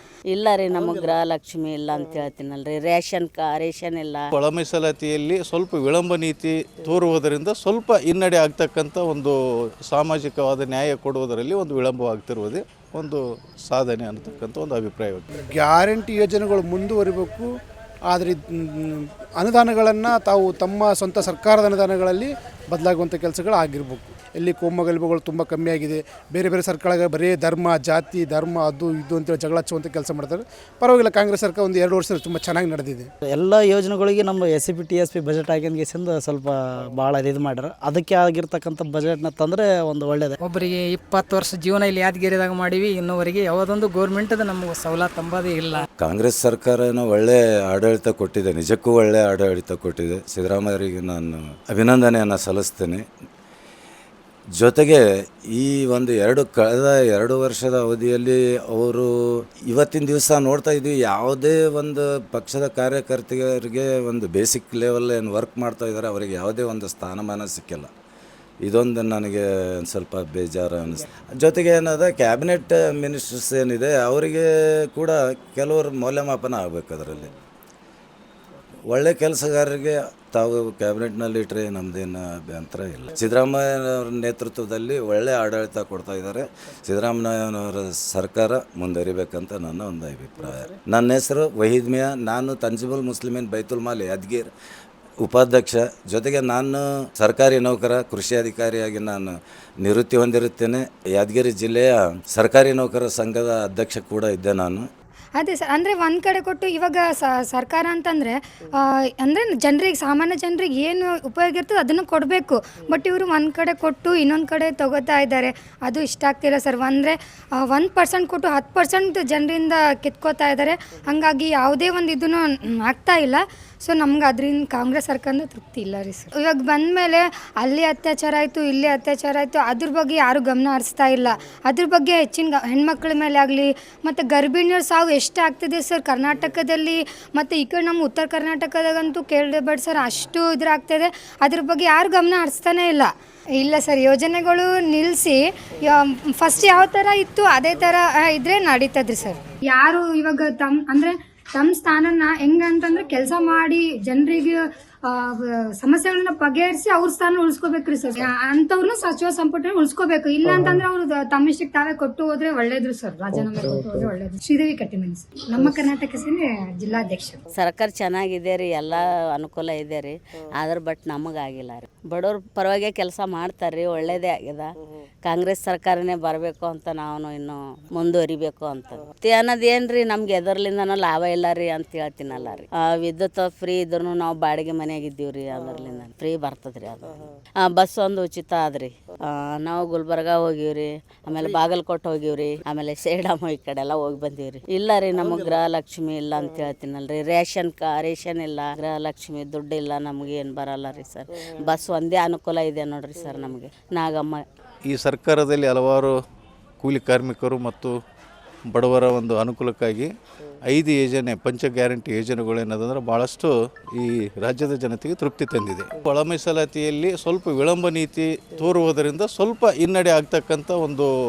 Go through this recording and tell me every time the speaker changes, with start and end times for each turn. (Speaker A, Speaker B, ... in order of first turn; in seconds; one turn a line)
Speaker A: 0.3-4.3
Speaker B: 4.3-9.3
Speaker B: 9.9-15.3
Speaker C: 15.5-17.5
Speaker C: 18.1-33.1
Speaker D: 33.3-40.4
Speaker E: 40.4-45.9
Speaker F: 46.0-53.0
Speaker F: 54.6-55.0
Speaker F: 55.5-59.1
Speaker F: 59.7-67.9
Speaker F: 68.7-77.3
Speaker F: 78.9-94.5
Speaker F: 95.2-99.3
Speaker F: 99.8-104.8
Speaker G: 105.4-167.4
Speaker A: 167.5-174.7
Speaker A: 175.2-204.4
Speaker B: 204.8-206.1
Speaker B: 206.8-207.9
Speaker B: 208.7-210.1
Speaker B: 210.7-221.1